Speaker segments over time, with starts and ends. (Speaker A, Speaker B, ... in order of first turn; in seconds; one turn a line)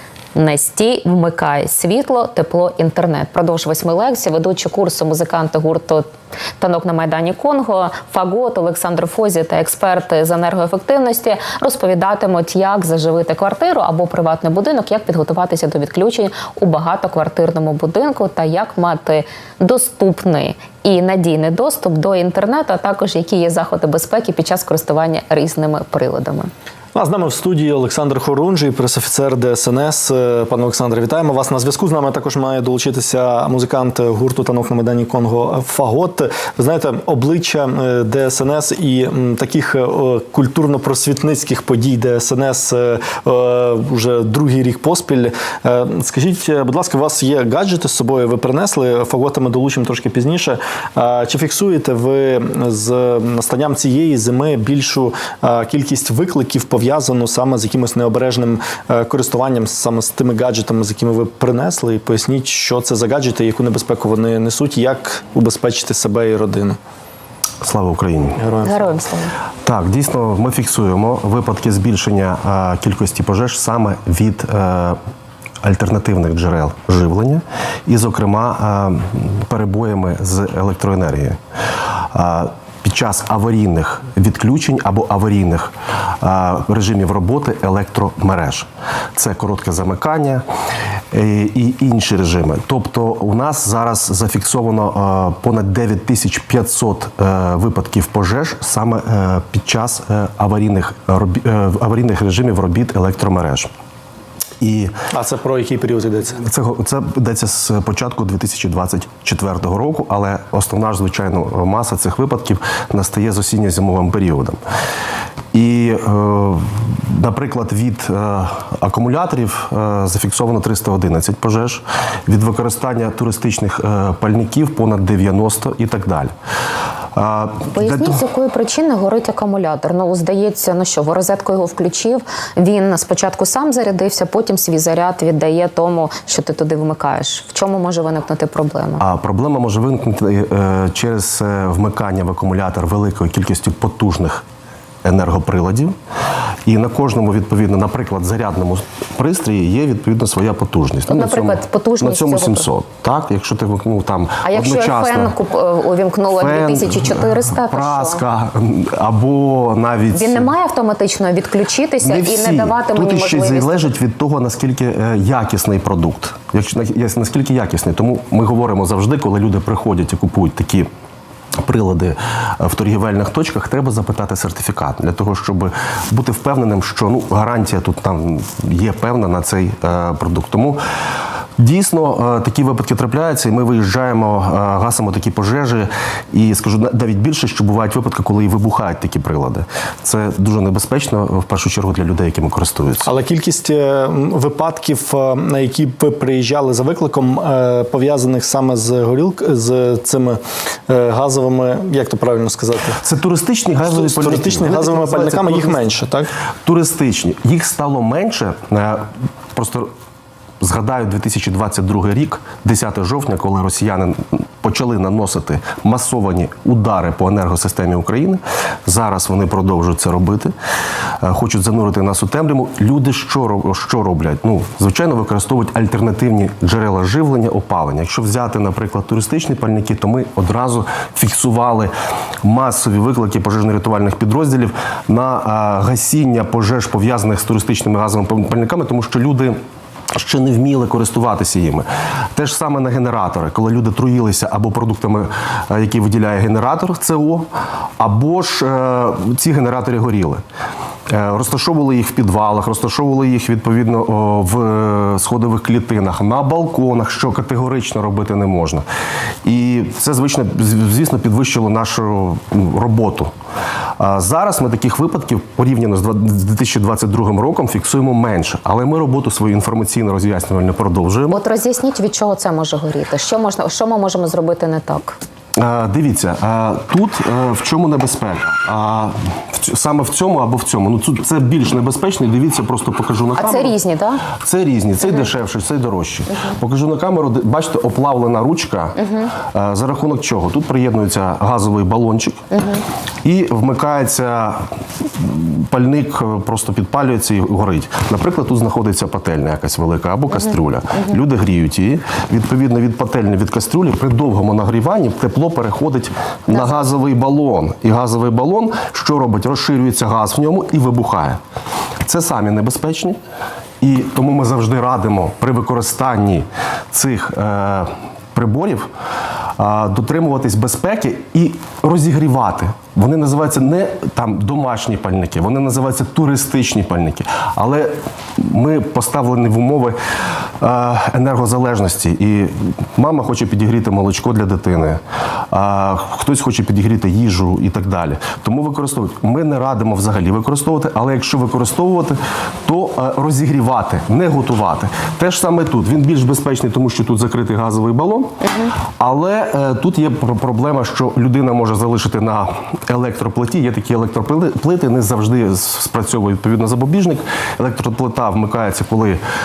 Speaker A: 0.3-6.0
Speaker A: 6.6-26.5
Speaker B: 26.9-66.8
Speaker C: 67.6-68.4
Speaker B: 68.4-68.9
Speaker A: 68.6-69.3
Speaker C: 69.6-75.0
Speaker C: 75.6-81.4
Speaker C: 82.1-90.4
Speaker C: 91.1-103.7
Speaker C: 104.6-104.9
Speaker B: 105.1-106.4
Speaker C: 106.4-114.6
Speaker C: 115.5-126.3
Speaker C: 127.1-128.2
Speaker A: 127.7-139.0
Speaker C: 139.0-144.4
Speaker C: 145.0-145.9
Speaker C: 146.7-155.3
Speaker A: 151.1-152.7
Speaker A: 154.4-158.2
Speaker C: 156.3-160.5
Speaker A: 160.1-163.9
Speaker C: 162.0-170.9
Speaker C: 171.6-180.8
Speaker C: 181.6-193.1
Speaker B: 193.0-203.0
Speaker C: 203.0-205.8
Speaker B: 203.8-206.3
Speaker C: 206.6-209.9
Speaker C: 210.6-220.5
Speaker C: 221.2-231.9
Speaker C: 232.4-239.6
Speaker C: 240.1-247.5
Speaker C: 248.0-250.4
Speaker C: 251.1-258.8
Speaker C: 259.4-263.3
Speaker C: 264.0-271.4
Speaker A: 271.3-275.2
Speaker C: 275.6-283.7
Speaker A: 283.4-284.2
Speaker C: 284.4-292.4
Speaker A: 289.0-289.3
Speaker A: 292.5-292.8
Speaker C: 293.2-311.4
Speaker A: 306.5-306.8
Speaker C: 312.0-313.2
Speaker C: 313.8-318.9
Speaker C: 319.6-329.9
Speaker C: 330.6-348.3
Speaker A: 348.4-348.7
Speaker C: 349.0-359.2